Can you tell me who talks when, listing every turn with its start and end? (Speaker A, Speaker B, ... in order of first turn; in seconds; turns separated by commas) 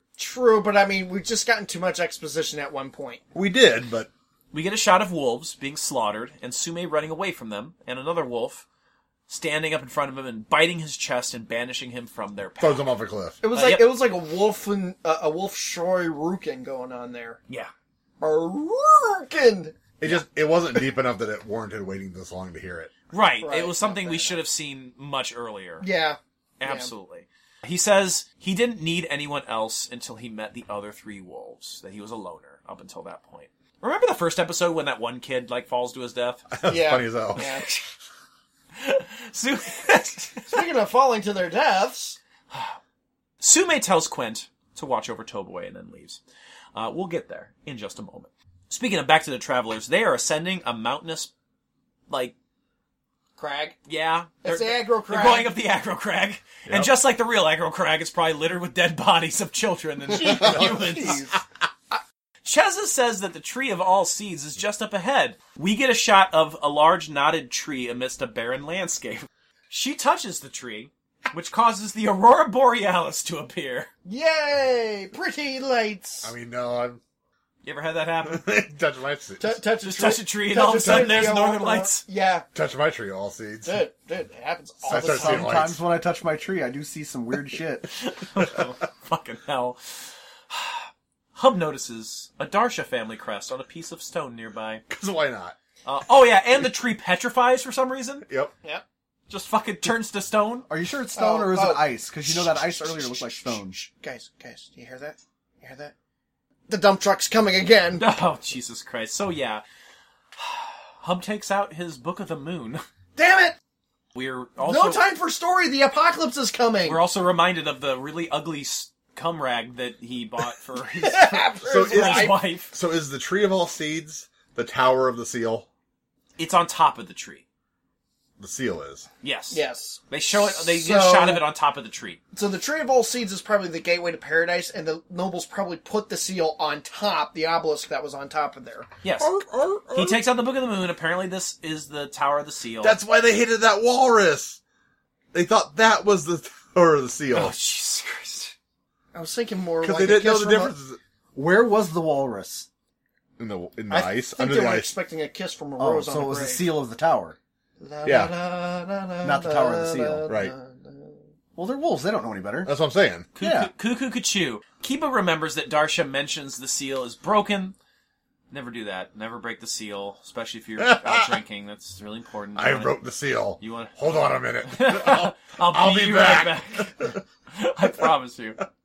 Speaker A: 0.2-3.2, Speaker B: 3.3-4.1, Speaker C: 4.5-8.7, Speaker C: 9.3-12.9, Speaker B: 12.6-13.4, Speaker A: 13.4-17.4, Speaker C: 13.5-13.9, Speaker A: 18.2-19.8, Speaker B: 20.0-22.9, Speaker C: 23.1-25.9, Speaker A: 23.4-24.4, Speaker A: 25.8-26.9, Speaker C: 26.6-36.5, Speaker B: 36.5-37.5, Speaker A: 36.7-37.7, Speaker C: 37.4-37.8, Speaker C: 38.7-40.6, Speaker A: 40.5-42.2, Speaker C: 42.5-42.8, Speaker C: 43.4-46.2, Speaker C: 46.8-51.3, Speaker C: 52.1-52.3, Speaker A: 53.4-53.8, Speaker C: 53.9-61.2, Speaker A: 54.4-55.5, Speaker B: 56.7-56.9, Speaker A: 60.1-62.0, Speaker B: 60.5-61.2, Speaker C: 62.4-73.9, Speaker A: 74.1-76.3, Speaker B: 76.2-77.0, Speaker C: 77.6-78.5, Speaker B: 78.2-79.6, Speaker A: 79.4-82.5, Speaker C: 79.8-82.0, Speaker B: 80.8-81.4, Speaker B: 82.5-83.8, Speaker A: 83.6-85.6, Speaker B: 84.8-85.8, Speaker D: 84.9-87.9, Speaker C: 88.0-94.8, Speaker B: 94.9-95.6, Speaker C: 95.8-98.2, Speaker B: 98.3-98.5, Speaker C: 99.3-100.7, Speaker D: 100.7-103.8, Speaker A: 101.2-105.9, Speaker A: 106.7-108.1, Speaker C: 108.0-109.6, Speaker C: 110.4-112.8, Speaker A: 113.2-113.6, Speaker C: 114.2-115.0, Speaker A: 114.6-117.0, Speaker C: 116.8-122.7, Speaker A: 121.0-122.4, Speaker B: 121.6-125.7, Speaker C: 126.4-127.5, Speaker B: 128.4-129.1, Speaker C: 129.2-132.2, Speaker A: 129.5-131.4, Speaker A: 132.3-138.9, Speaker C: 139.0-139.4, Speaker B: 139.2-140.2, Speaker C: 139.9-143.0, Speaker B: 142.8-144.6, Speaker B: 145.3-147.5, Speaker C: 147.3-148.6, Speaker A: 149.1-150.8, Speaker B: 149.8-151.0, Speaker D: 151.3-152.7, Speaker B: 153.4-154.9, Speaker A: 153.9-156.7, Speaker D: 155.8-157.4, Speaker A: 157.8-161.2, Speaker B: 158.0-158.3, Speaker D: 159.2-160.3, Speaker D: 161.6-162.7, Speaker B: 162.7-163.3, Speaker C: 163.3-167.8, Speaker D: 163.4-163.7, Speaker C: 168.5-173.0, Speaker B: 170.8-171.4, Speaker B: 172.6-177.2, Speaker C: 173.6-178.6